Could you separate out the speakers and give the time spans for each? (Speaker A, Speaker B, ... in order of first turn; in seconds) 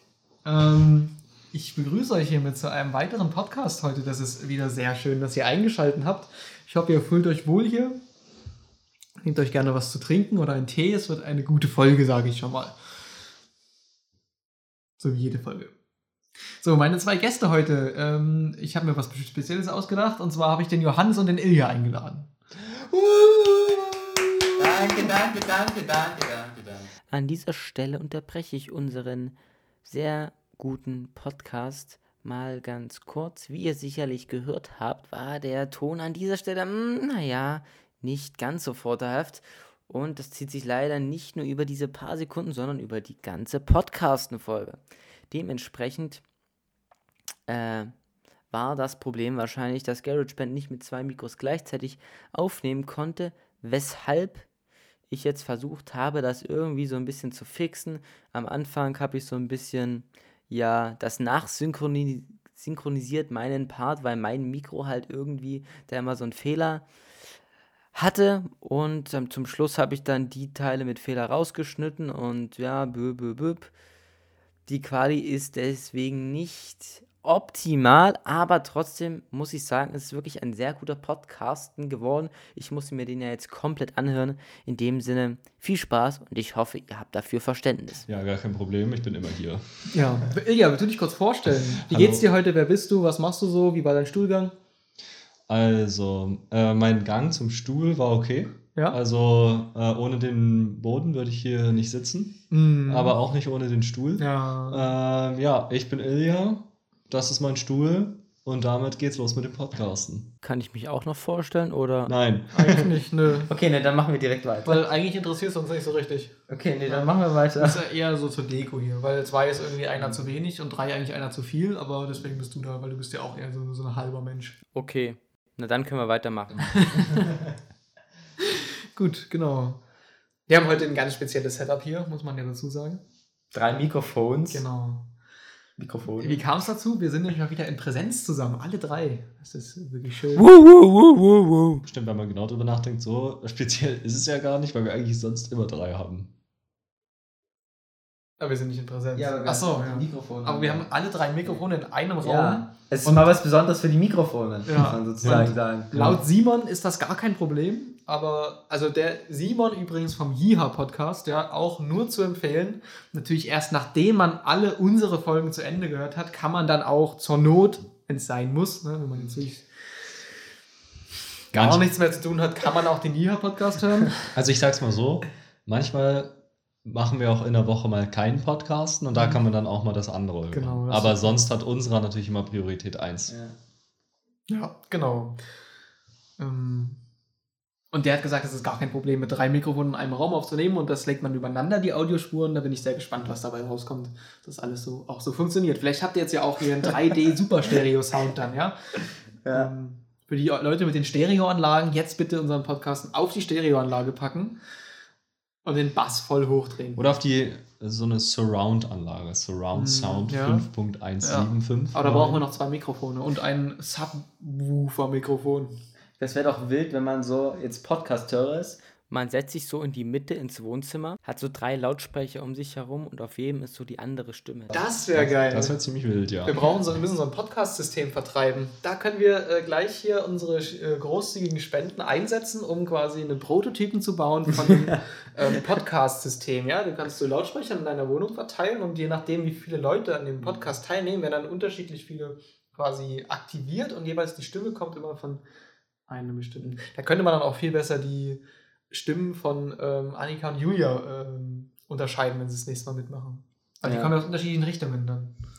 Speaker A: 0.5-8.0, 9.2-12.8, 15.0-15.7, 16.6-22.3, 89.9-94.6, 102.5-103.2, 104.2-104.9, 112.5-113.5, 114.6-116.3, 116.9-124.6, 126.8-127.2, 128.9-129.8, 130.5-133.0, 134.5-135.1, 136.2-140.5, 148.4-153.3, 154.7-169.7, 171.5-174.2, 180.5-181.4, 184.5-185.4, 186.4-187.0, 187.9-198.8, 199.5-204.6, 205.6-207.0, 209.7-210.7, 211.2-215.8, 224.7-225.8, 226.4-245.4, 246.1-255.3
Speaker B: 24.6-46.2, 47.5-47.9, 48.5-54.5, 55.1-66.9, 67.9-73.7, 74.7-88.1, 110.4-112.2, 124.8-127.2, 140.4-141.8, 149.5-149.9, 153.1-153.3, 154.7-155.5, 219.1-224.9
Speaker C: 24.7-25.2, 113.5-114.8, 116.5-117.8, 133.5-134.6, 135.8-136.4, 149.2-150.8, 152.2-156.1, 183.3-183.5, 216.2-218.8, 253.8-254.1
Speaker D: 88.1-90.2, 91.9-92.2, 95.5-110.3, 112.1-112.9, 141.8-146.3, 155.2-155.6, 171.5-171.9, 174.3-183.3, 207.0-212.4, 225.1-226.5